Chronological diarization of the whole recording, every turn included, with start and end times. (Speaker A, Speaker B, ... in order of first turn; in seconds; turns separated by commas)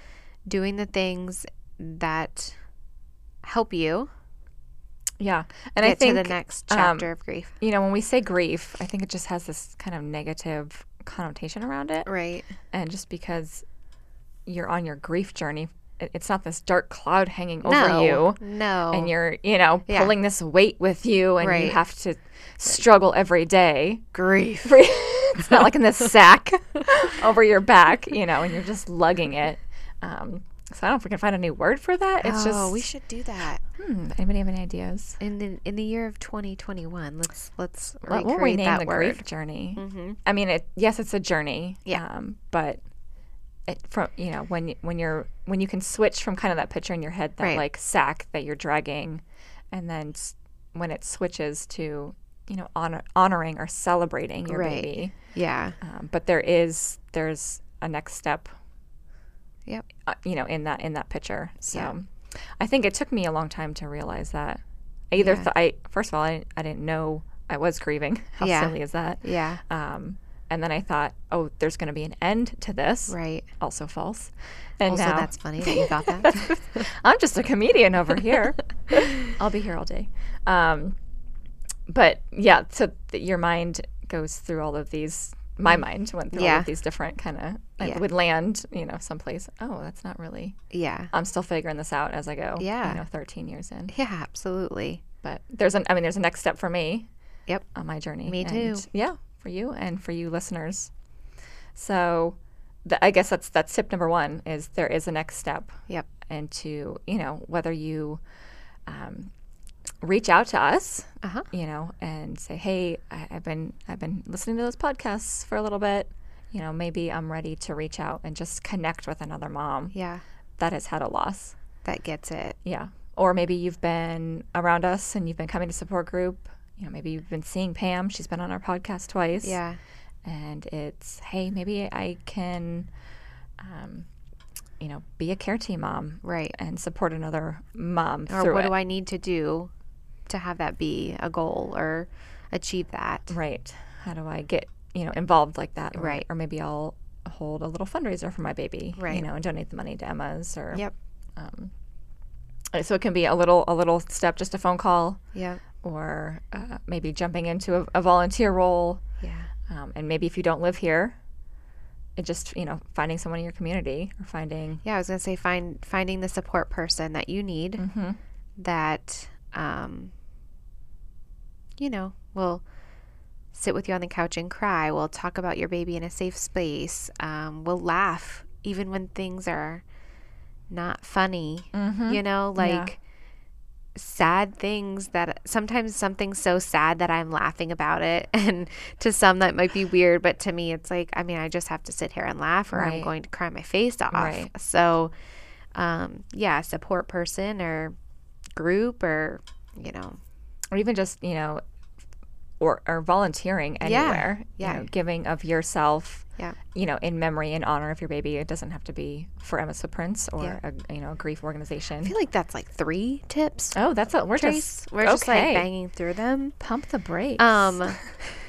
Speaker A: 0.5-2.6, Speaker A: 3.4-4.1, Speaker B: 5.2-7.1, Speaker A: 5.8-7.5, Speaker B: 7.6-12.1, Speaker A: 12.1-12.5, Speaker B: 12.7-13.7, Speaker B: 14.5-24.1, Speaker A: 17.6-19.1, Speaker A: 19.9-20.1, Speaker A: 21.4-21.8, Speaker A: 24.1-24.8, Speaker B: 24.6-32.9, Speaker A: 32.2-33.6, Speaker B: 33.8-35.2, Speaker A: 35.2-39.2, Speaker B: 38.0-42.8, Speaker A: 39.8-40.2, Speaker B: 43.7-55.1, Speaker A: 54.5-55.8, Speaker B: 55.8-58.5, Speaker B: 60.0-81.0, Speaker A: 61.7-61.9, Speaker A: 65.2-65.5, Speaker A: 68.4-69.6, Speaker A: 73.1-73.5, Speaker A: 74.9-76.9, Speaker B: 81.9-90.6, Speaker A: 86.3-86.7, Speaker A: 90.7-91.1, Speaker B: 91.1-93.9, Speaker A: 92.6-93.0, Speaker A: 93.9-95.0, Speaker B: 95.2-97.1, Speaker B: 97.8-100.9, Speaker A: 98.2-98.8, Speaker B: 101.8-108.2, Speaker B: 108.9-109.3, Speaker B: 110.0-120.0, Speaker A: 111.2-111.5, Speaker A: 119.9-120.2, Speaker B: 120.6-121.6, Speaker A: 121.8-122.6, Speaker B: 122.7-129.6, Speaker A: 129.4-129.8, Speaker B: 130.2-132.9, Speaker B: 133.6-134.1, Speaker B: 134.8-138.7, Speaker A: 136.2-136.6, Speaker A: 138.3-139.7, Speaker A: 140.3-143.3, Speaker B: 143.3-150.8, Speaker A: 145.9-146.2, Speaker A: 149.0-149.3, Speaker B: 151.4-151.7, Speaker B: 152.7-155.2, Speaker A: 155.3-155.6, Speaker B: 155.8-159.0, Speaker A: 159.2-159.5, Speaker B: 159.7-161.2, Speaker B: 162.2-164.8, Speaker A: 164.8-167.8, Speaker B: 167.8-168.2, Speaker A: 168.6-170.1, Speaker A: 171.8-172.6, Speaker A: 173.5-179.8, Speaker A: 180.7-183.0, Speaker B: 181.7-182.9, Speaker A: 184.0-195.1, Speaker B: 192.7-193.1, Speaker B: 194.1-194.5, Speaker A: 195.8-197.9, Speaker A: 198.6-200.2, Speaker B: 200.7-201.6, Speaker B: 202.6-212.1, Speaker A: 203.8-204.9, Speaker A: 212.0-213.8, Speaker B: 213.8-215.7, Speaker A: 214.4-216.6, Speaker B: 216.6-218.0, Speaker A: 217.4-218.0